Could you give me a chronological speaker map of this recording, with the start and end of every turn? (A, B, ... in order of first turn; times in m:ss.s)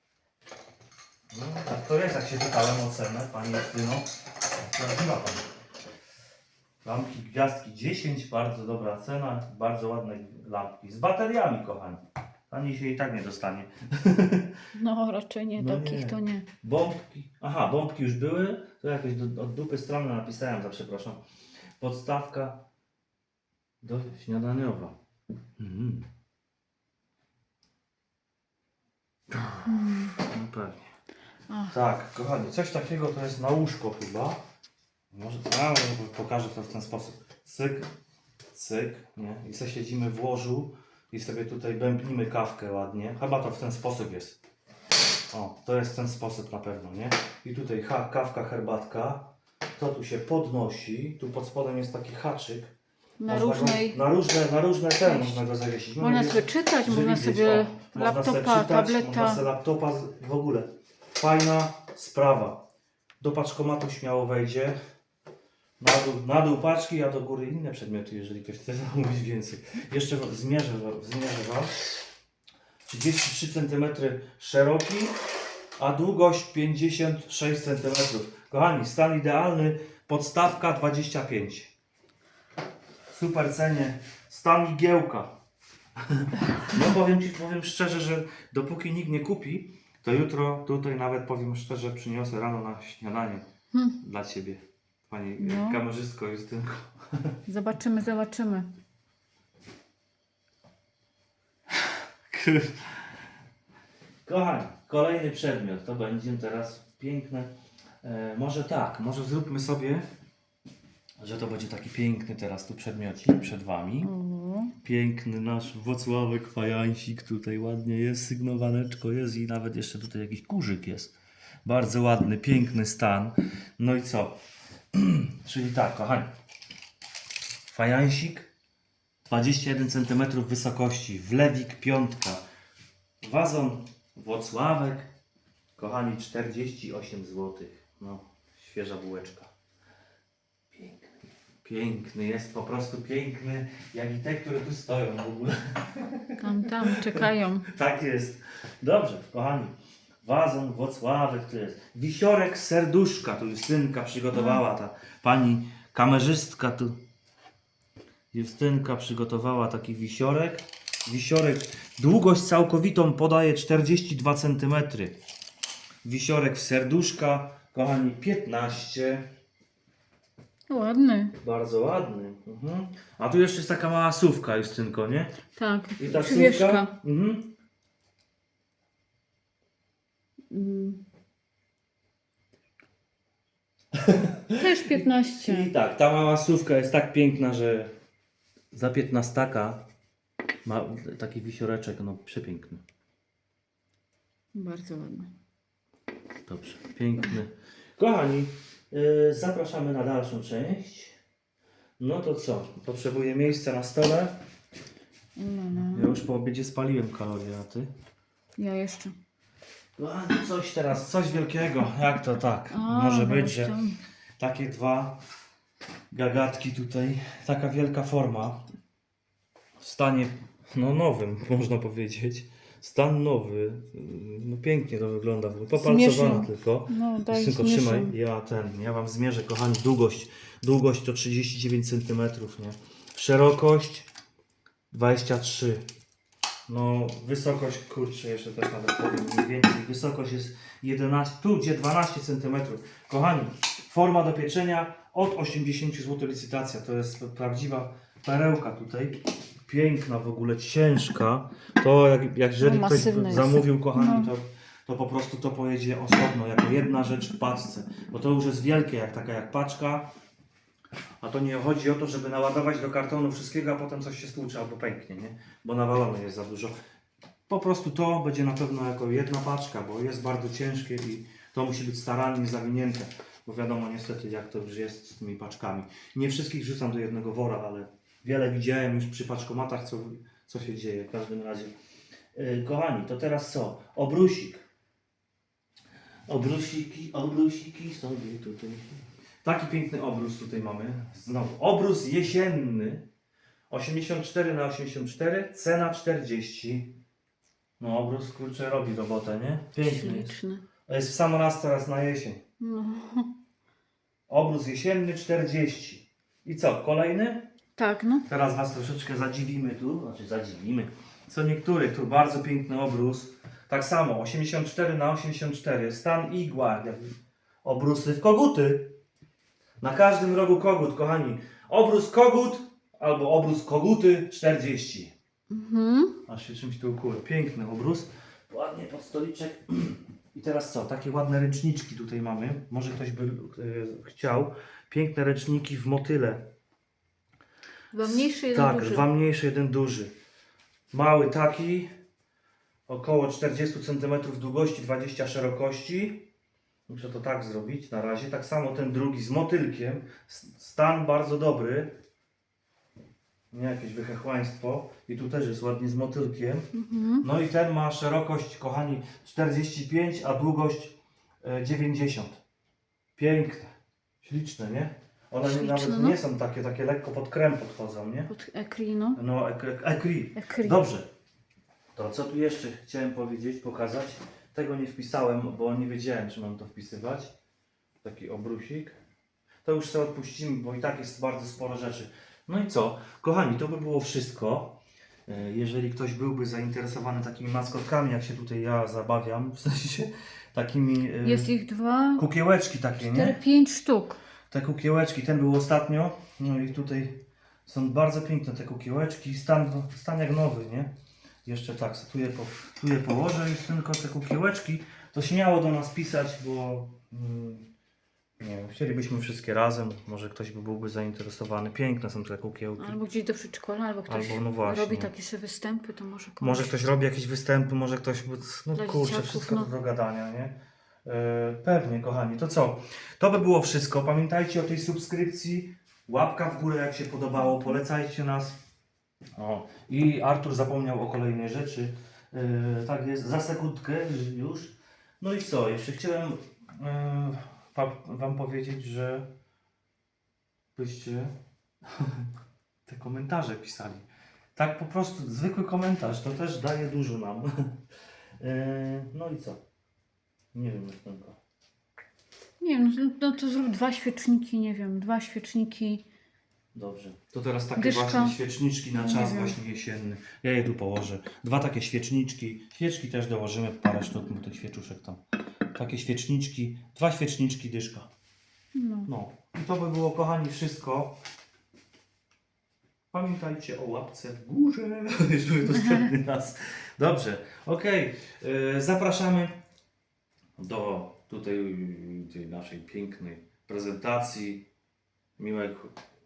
0:01.3-0:04.1 A
0:04.7-0:05.5 A
0:06.8-0:14.6 A
0:14.7-0:16.5 B
0:15.6-0:21.2 A
0:21.8-0:22.6 A
0:23.8-0:25.0 A
0:25.6-0:26.1 A
0:29.3-0:30.9 A
0:29.6-0:30.2 B
0:31.5-0:31.8 B
0:31.7-0:34.4 A
0:35.1-0:37.9 A
0:38.5-0:44.4 A
0:45.3-0:52.7 A
0:53.2-0:54.0 B
0:53.3-1:02.6 A
0:55.0-0:55.4 B
0:56.0-0:59.4 B
1:03.2-1:04.8 A
1:05.8-1:11.8 A
1:12.9-1:15.2 A
1:15.8-1:21.7 A
1:23.1-1:25.4 A
1:26.0-1:33.5 A
1:34.0-1:37.4 A
1:35.4-1:35.8 B
1:37.5-1:38.7 B
1:41.7-1:43.1 A
1:44.3-1:47.5 A
1:48.0-1:50.0 A
1:51.2-1:54.1 A
1:54.0-1:54.8 B
1:54.8-2:01.1 A
2:01.6-2:04.4 A
2:04.9-2:06.3 A
2:07.7-2:08.5 A
2:09.3-2:12.4 A
2:13.2-2:15.1 A
2:15.8-2:19.5 A
2:20.7-2:37.0 A
2:26.4-2:27.7 B
2:34.3-2:34.6 B
2:38.3-2:45.2 A
2:46.0-2:49.3 A
2:50.7-2:51.4 B
2:51.4-2:55.4 A
2:55.5-2:56.9 B
2:56.0-2:57.5 A
3:00.5-3:01.0 B
3:03.9-3:07.9 A
3:04.6-3:05.7 B
3:08.7-3:09.8 A
3:10.6-3:12.8 A
3:14.5-3:15.3 B
3:16.5-3:21.2 A
3:22.0-3:24.4 A
3:25.4-3:26.1 B
3:25.8-3:27.9 A
3:28.6-3:29.2 B
3:30.0-3:33.8 A
3:32.7-3:34.0 B
3:34.4-3:35.2 A
3:36.1-3:38.7 A
3:39.8-3:54.1 A
3:45.8-3:48.2 B
3:54.9-3:55.8 A
3:56.7-4:20.1 A
4:12.6-4:14.3 B
4:21.2-4:26.8 A
4:27.5-4:41.7 A
4:42.4-4:44.6 A
4:46.3-4:53.1 A
4:53.7-4:57.0 A
4:57.8-5:00.4 A
4:59.8-5:00.6 B
5:00.9-5:02.4 A
5:02.6-5:03.3 B
5:04.3-5:07.5 A
5:07.8-5:08.3 B
5:08.3-5:19.0 A
5:19.8-5:25.1 A
5:25.5-5:26.2 B
5:26.3-5:36.5 A
5:37.9-5:39.1 B
5:38.0-5:40.1 A
5:40.9-5:41.9 A
5:42.9-5:46.3 A
5:46.9-5:52.0 A
5:53.5-6:02.4 A
5:56.7-5:57.3 B
6:03.2-6:08.3 A
6:05.5-6:06.2 B
6:08.3-6:09.2 B
6:09.2-6:11.1 A
6:10.4-6:10.8 B
6:12.0-6:17.3 A
6:18.0-6:19.0 A
6:19.6-6:31.5 A
6:31.2-6:32.2 B
6:32.2-6:33.4 A
6:33.1-6:34.2 B
6:34.5-6:40.9 A
6:41.4-6:47.7 A
6:48.4-6:53.0 A
6:52.8-6:56.8 B
6:54.1-6:55.1 A
6:56.4-7:08.6 A
6:58.8-6:59.7 B
7:09.4-7:19.3 A
7:20.8-7:21.3 A
7:21.9-7:22.3 A
7:22.9-7:27.8 A
7:28.4-7:29.6 A
7:30.5-7:31.4 A
7:32.6-7:36.0 B
7:36.8-7:45.2 A
7:37.8-7:38.4 B
7:38.9-7:39.6 B
7:45.8-7:48.1 A
7:48.7-7:49.1 B
7:49.1-7:51.2 A
7:53.1-7:59.6 A
8:00.6-8:04.7 A
8:05.4-8:06.0 A